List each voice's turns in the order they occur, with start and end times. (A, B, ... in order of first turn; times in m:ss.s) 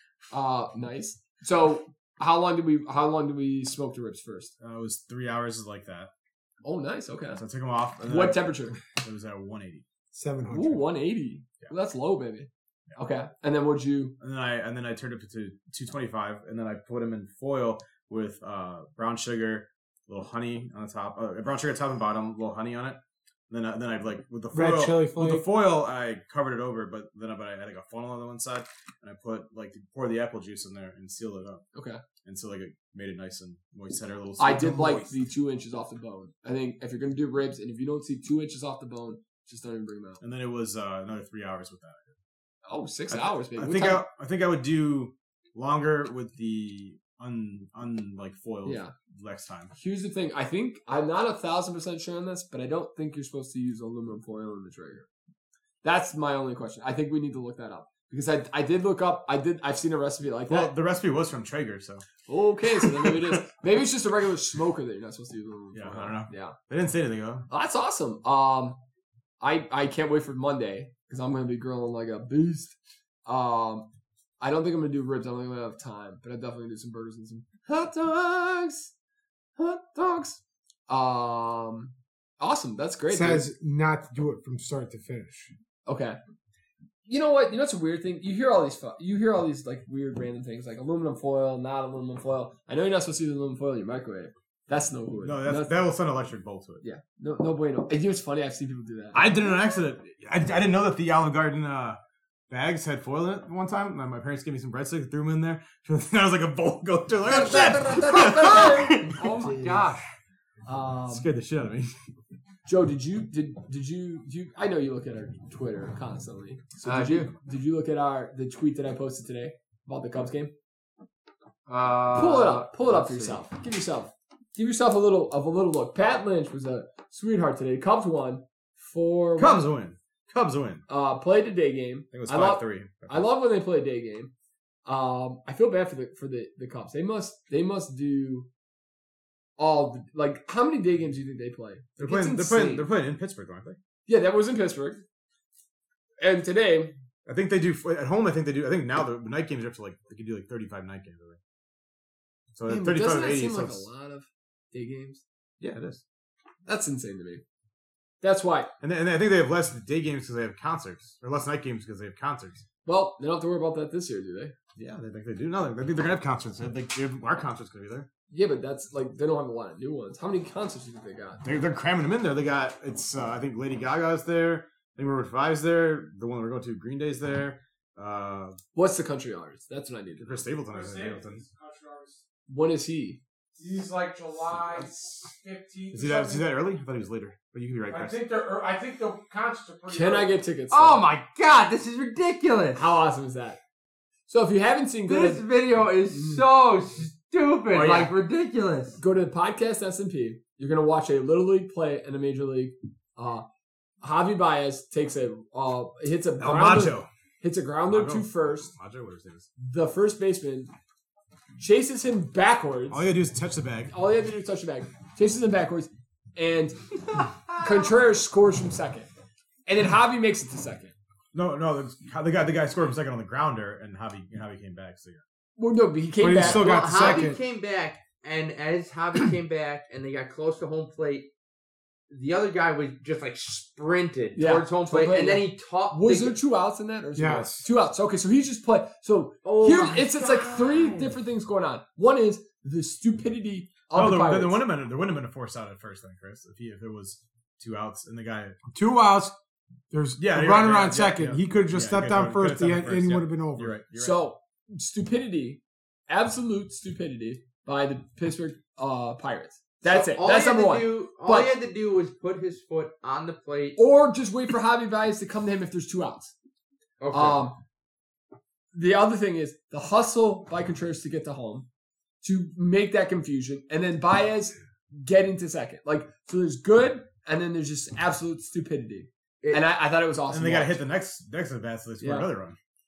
0:00.3-0:04.5 A
0:04.6-0:06.1 B
0:06.6-0:07.4 A
0:07.3-0:09.8 B
0:08.0-0:08.8 A
0:10.1-0:10.8 C
0:10.5-0:14.2 A
0:14.2-0:31.6 B
0:24.5-0:25.4 C
0:31.8-0:32.0 A
0:32.2-0:35.1 B
0:34.4-0:40.2 A
0:40.2-0:42.2 B
0:42.7-0:44.0 A
0:43.1-0:49.7 B
0:48.6-0:48.9 A
0:49.7-0:55.1 A
0:55.8-1:00.7 A
1:00.5-1:02.1 B
1:02.3-1:06.6 A
1:02.8-1:03.4 B
1:05.7-1:07.5 B
1:07.5-1:08.8 A
1:09.4-1:13.9 A
1:14.4-1:18.9 A
1:19.6-1:23.5 A
1:23.1-1:25.5 C
1:25.9-1:26.2 A
1:27.1-1:35.9 A
1:35.2-1:36.8 B
1:36.8-1:39.2 A
1:39.1-1:42.0 B
1:42.5-1:49.2 B
1:47.2-1:49.9 A
1:49.1-1:50.1 D
1:50.7-1:51.3 A
1:51.1-1:51.9 B
1:52.7-2:00.5 A
1:56.8-1:57.3 D
2:01.7-2:03.4 D
2:02.1-2:09.7 A
2:09.4-2:10.8 B
2:10.9-2:14.3 A
2:12.1-2:13.2 B
2:14.9-2:18.5 A
2:19.6-2:22.9 A
2:22.0-2:23.8 B
2:24.1-2:25.0 A
2:26.2-2:26.9 A
2:27.3-2:31.4 B
2:32.5-2:33.9 B
2:32.7-2:35.2 A
2:35.6-2:36.0 B
2:36.7-2:37.4 A
2:38.2-2:38.7 A
2:38.8-2:42.6 B
2:42.8-2:44.6 A
2:44.8-2:48.1 B
2:48.3-2:51.4 A
2:51.4-2:58.6 B
2:58.8-3:00.4 A
3:00.2-3:01.4 B
3:00.7-3:02.2 C
3:02.5-3:03.2 A
3:03.6-3:06.5 C
3:05.9-3:08.2 B
3:07.9-3:10.4 C
3:09.9-3:11.0 A
3:10.7-3:12.9 D
3:12.8-3:13.6 A
3:14.3-3:15.4 A
3:15.1-3:19.0 D
3:16.1-3:16.4 A
3:17.7-3:18.1 A
3:19.0-3:23.4 A
3:24.0-3:28.7 A
3:26.4-3:27.1 B
3:27.9-3:29.5 B
3:29.6-3:30.7 A
3:31.6-3:33.0 A
3:32.9-3:33.9 B
3:33.9-3:39.1 A
3:39.7-3:40.9 A
3:41.3-3:45.2 B
3:45.6-3:47.3 A
3:46.2-3:47.4 C
3:46.4-3:51.3 D
3:52.1-3:56.4 D
3:54.4-4:04.6 A
3:57.2-3:57.7 C
3:59.4-4:01.2 D
4:03.9-4:08.6 B
4:08.7-4:09.4 C
4:09.9-4:13.7 C
4:10.2-4:14.3 B
4:14.0-4:21.5 A
4:19.8-4:23.8 D
4:23.8-4:26.3 A
4:27.0-4:27.4 D
4:27.1-4:27.6 A
4:28.7-4:31.7 A
4:32.2-4:40.8 A
4:40.3-4:42.6 B
4:42.0-4:42.3 A